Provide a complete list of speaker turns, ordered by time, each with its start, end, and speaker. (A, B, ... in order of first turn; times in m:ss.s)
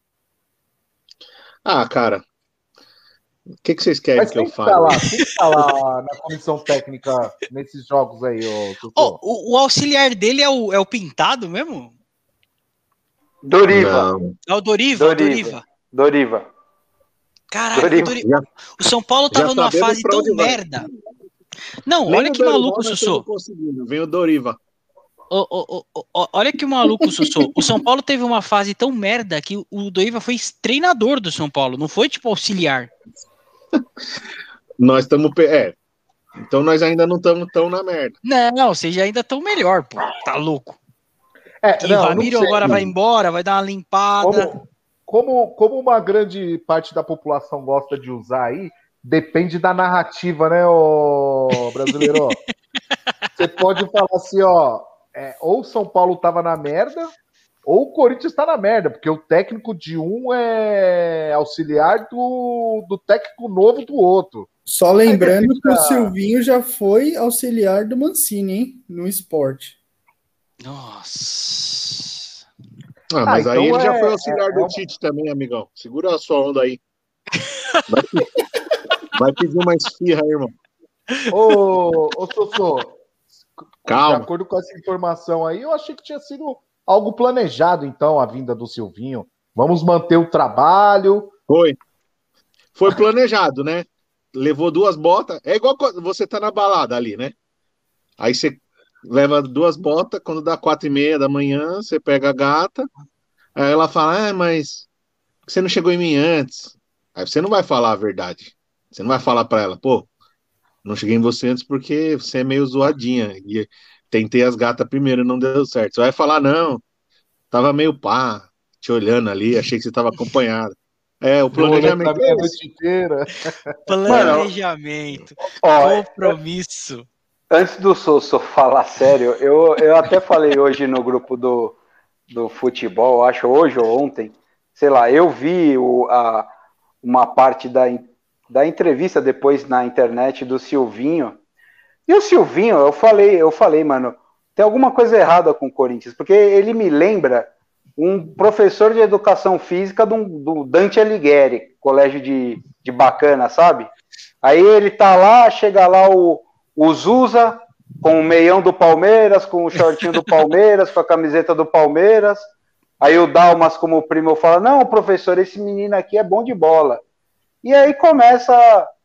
0:01.6-0:02.2 A
0:03.6-0:05.0 A
0:04.2-0:09.2 B
0:09.0-0:11.9 C
0:13.4-0:14.1 D
0:13.7-0:14.3 A
0:14.5-0:15.6 C
0:15.0-0:16.5 D
0:17.5-0:20.8 C
0:17.7-0:18.2 D
0:18.2-0:18.4 A
0:19.3-0:20.6 A
0:21.8-0:23.2 C
0:22.1-0:24.6 A
0:25.3-0:32.9 C
0:34.8-0:35.8 A
0:36.4-0:38.1 A
0:38.2-0:40.8 C
0:41.6-0:42.9 B
0:41.8-0:44.5 C
0:44.2-0:52.4 B
0:53.4-0:57.1 B
0:57.6-1:04.5 B
1:04.7-1:09.7 E
1:05.0-1:06.1 B
1:10.6-1:12.4 C
1:13.1-1:16.8 A
1:13.3-1:14.8 B
1:17.9-1:18.4 A
1:19.1-1:20.5 A
1:21.3-1:23.0 B
1:23.8-1:31.3 B
1:23.9-1:24.3 A
1:31.5-1:31.8 A
1:32.7-1:37.3 A
1:38.2-1:42.9 A
1:43.6-1:44.9 A
1:45.4-1:50.1 A
1:50.8-1:56.8 A
1:57.5-2:02.5 A
2:01.5-2:04.3 B
2:03.9-2:07.1 C
2:04.1-2:04.5 D
2:05.6-2:06.3 D
2:07.5-2:11.8 D
2:12.3-2:16.5 D
2:17.0-2:21.4 D
2:22.1-2:33.9 D
2:34.4-2:42.4 D
2:43.0-2:47.0 D
2:47.6-2:48.9 D